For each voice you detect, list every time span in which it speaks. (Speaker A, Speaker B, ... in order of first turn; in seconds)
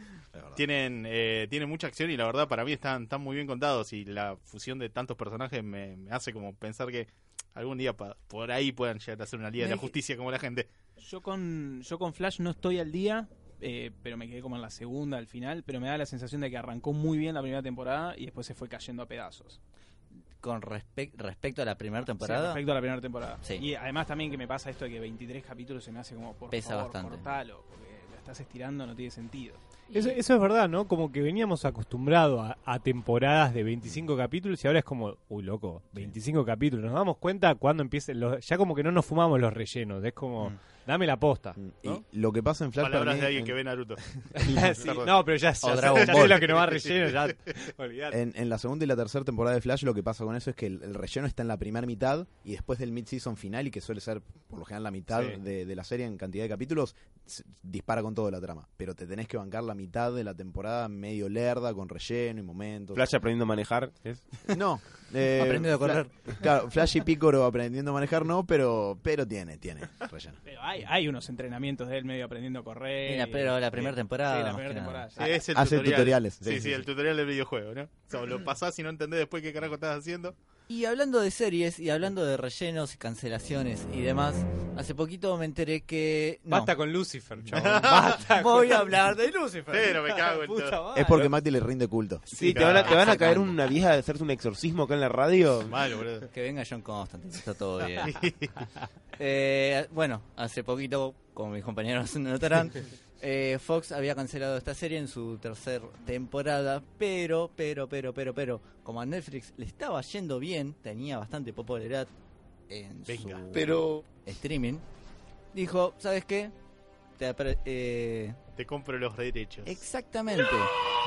Speaker A: 0.3-0.6, 41.6-43.5, 48.1-63.1, 64.5-70.4, 75.5-76.8, 90.9-92.3
Speaker B: 0.5-10.7, 42.8-45.2, 45.9-47.1, 75.2-80.3, 87.5-88.2, 89.7-90.8, 92.3-93.0, 95.7-96.3, 98.0-98.5, 113.1-113.7, 118.6-119.8
Speaker C: 9.6-9.9, 11.0-19.6, 22.2-30.2, 70.4-75.4
Speaker D: 20.4-22.6, 26.5-27.3, 45.6-46.5, 65.3-66.1, 73.0-75.2, 80.7-86.7, 87.9-90.0, 92.6-93.6, 96.3-98.2, 99.2-112.1, 112.7-114.8, 115.5-116.5, 117.2-118.4, 119.6-120.7
Speaker E: 29.9-42.0, 44.3-48.2, 55.1-55.4, 86.5-89.0, 90.1-91.3
Speaker F: 62.9-64.3, 92.3-95.8